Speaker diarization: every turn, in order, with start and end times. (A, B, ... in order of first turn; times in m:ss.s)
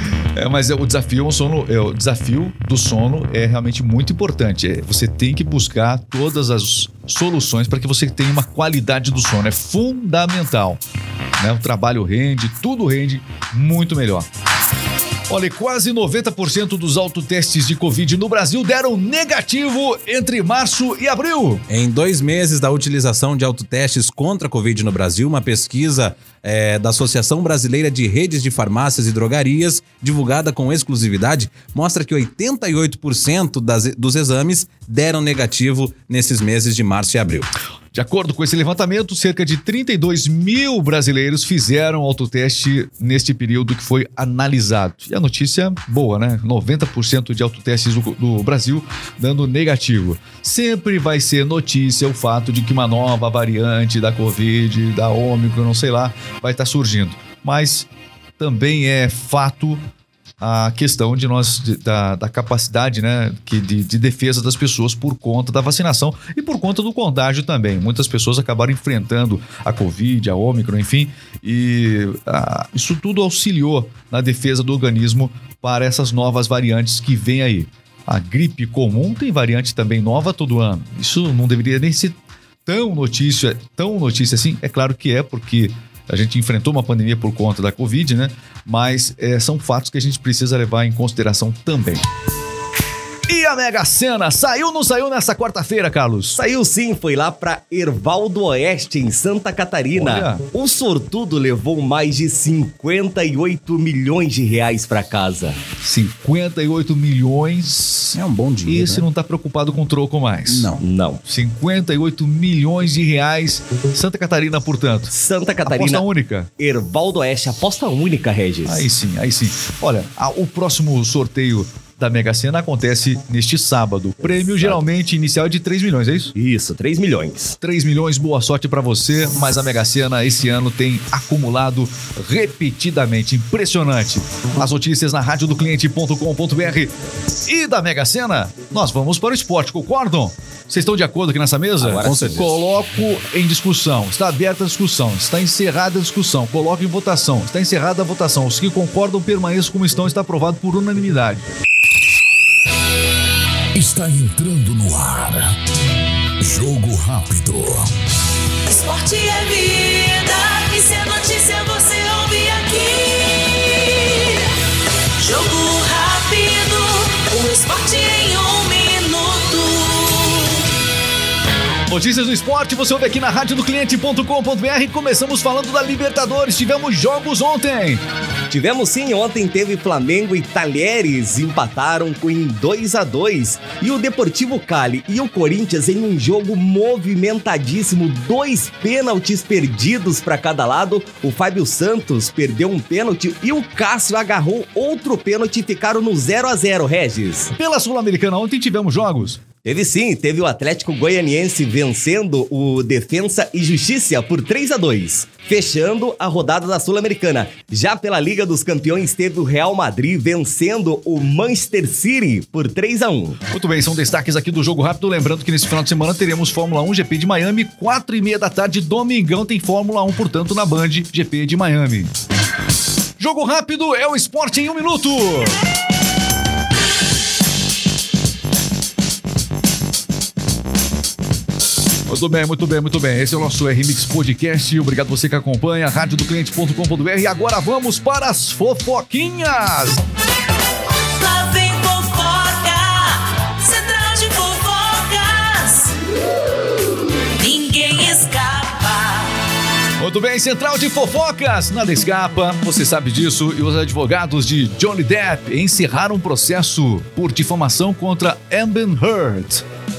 0:00.3-0:10.8 A
0:11.4-0:14.3 A
0:15.3-0:21.6 A
0:21.7-0:37.5 B
0:37.9-0:59.8 A
1:00.4-1:32.0 A
1:33.3-1:36.4 A
1:36.3-1:45.6 C
1:39.9-1:40.4 A
1:45.8-1:50.7 A
1:48.1-1:49.0 B
1:50.5-1:50.8 B
1:50.8-1:51.2 C
1:51.2-1:55.1 A
1:55.1-1:56.0 C
1:55.6-1:56.5 A
1:56.6-1:58.8 C
1:58.6-2:06.3 A
2:06.4-2:07.6 C
2:07.6-2:16.9 A
2:17.4-2:31.4 A
2:21.8-2:22.6 B
2:33.7-2:35.4 D
2:36.4-2:37.9 D
2:38.6-2:44.5 E
2:45.2-2:50.6 E
2:51.9-2:58.0 A
2:58.5-3:17.5 C
3:17.5-3:19.4 A
3:19.6-3:33.4 C
3:33.5-3:42.1 A
3:43.2-3:45.5 A
3:52.1-4:00.0 A
4:01.0-4:05.9 E
4:07.4-4:09.3 E
4:10.0-4:19.6 A